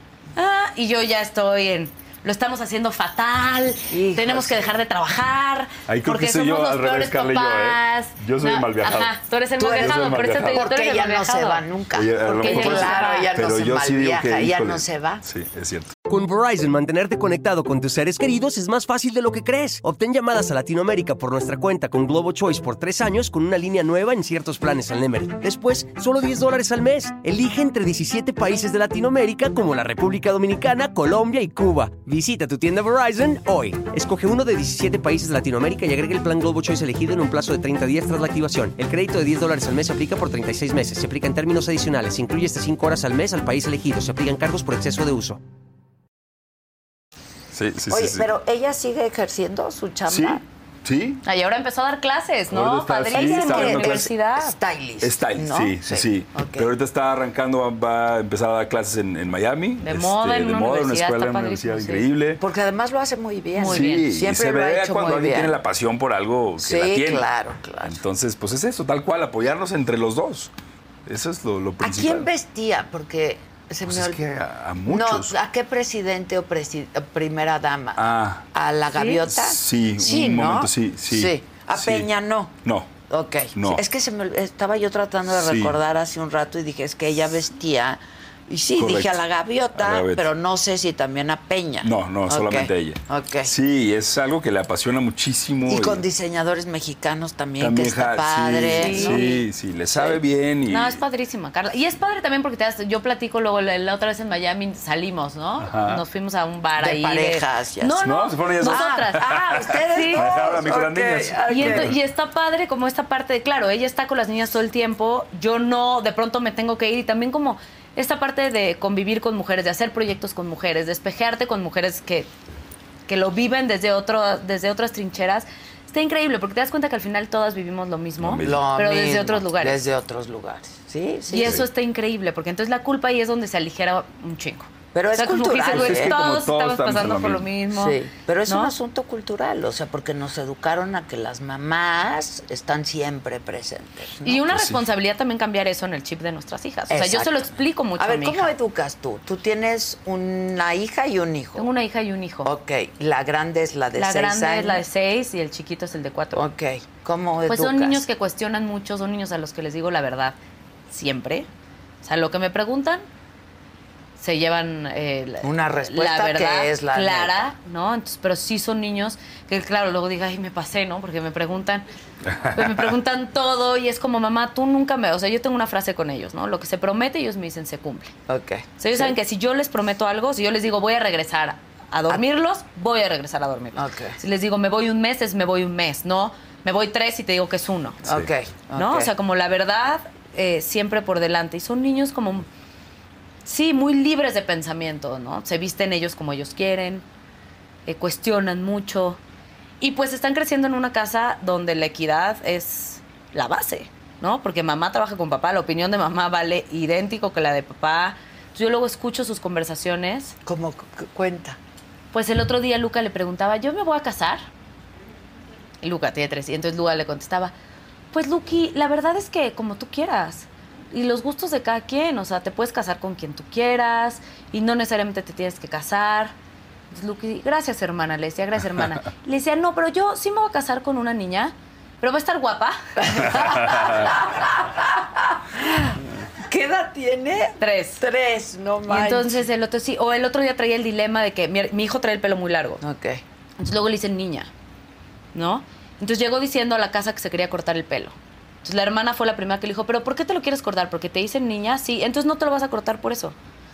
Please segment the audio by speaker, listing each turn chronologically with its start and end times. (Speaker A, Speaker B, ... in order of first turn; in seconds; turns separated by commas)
Speaker A: 0.3-11.6, Speaker B: 3.9-4.6, Speaker C: 5.9-9.1, Speaker B: 9.6-15.2, Speaker C: 9.8-10.7, Speaker C: 11.9-15.9, Speaker A: 12.4-13.3, Speaker D: 16.1-45.4, Speaker C: 47.5-48.3, Speaker B: 47.9-50.4, Speaker C: 50.1-51.2, Speaker A: 51.2-54.6, Speaker C: 52.5-54.1, Speaker B: 53.1-56.7, Speaker C: 55.0-62.4, Speaker A: 59.8-62.0, Speaker B: 62.4-65.6, Speaker A: 63.5-64.1, Speaker C: 63.6-67.2, Speaker B: 66.6-68.0, Speaker C: 67.8-70.5, Speaker C: 71.0-72.3, Speaker B: 71.8-74.2, Speaker C: 73.9-75.3, Speaker B: 74.8-93.5, Speaker C: 78.0-78.4, Speaker A: 78.9-79.2, Speaker C: 79.3-82.1, Speaker C: 82.6-82.9, Speaker C: 83.5-83.8, Speaker C: 85.3-85.8, Speaker C: 88.8-89.2, Speaker C: 89.8-90.2, Speaker C: 91.8-96.0, Speaker B: 95.7-100.2, Speaker C: 97.6-101.0, Speaker A: 98.7-99.4, Speaker A: 100.7-110.4, Speaker C: 105.6-106.0, Speaker B: 106.8-108.0, Speaker C: 108.0-111.9, Speaker B: 108.6-111.9, Speaker A: 111.5-122.3, Speaker A: 123.1-129.8, Speaker C: 128.2-128.6, Speaker B: 128.4-131.6, Speaker A: 131.3-138.7, Speaker B: 134.9-136.2, Speaker C: 135.7-137.4, Speaker B: 137.7-144.4, Speaker A: 144.2-148.5, Speaker C: 144.5-144.8, Speaker B: 146.9-151.7, Speaker A: 151.6-152.5, Speaker B: 152.4-154.8, Speaker A: 153.9-156.4, Speaker B: 156.3-158.0, Speaker A: 157.5-160.3, Speaker A: 160.9-161.5, Speaker A: 162.0-163.0, Speaker A: 164.2-171.8, Speaker B: 165.4-167.4, Speaker A: 172.4-178.1, Speaker B: 178.3-179.1, Speaker A: 178.8-188.0, Speaker B: 183.7-184.2, Speaker B: 188.0-189.1, Speaker A: 188.7-192.5, Speaker A: 193.4-197.0, Speaker A: 197.8-199.2, Speaker A: 199.8-210.3, Speaker B: 210.4-211.6, Speaker A: 212.1-214.4, Speaker A: 215.8-217.5, Speaker A: 218.1-226.3, Speaker A: 226.9-233.7, Speaker B: 233.0-239.4, Speaker A: 237.6-238.0, Speaker A: 238.9-242.8, Speaker B: 242.8-243.2, Speaker A: 243.6-244.5, Speaker A: 245.3-253.3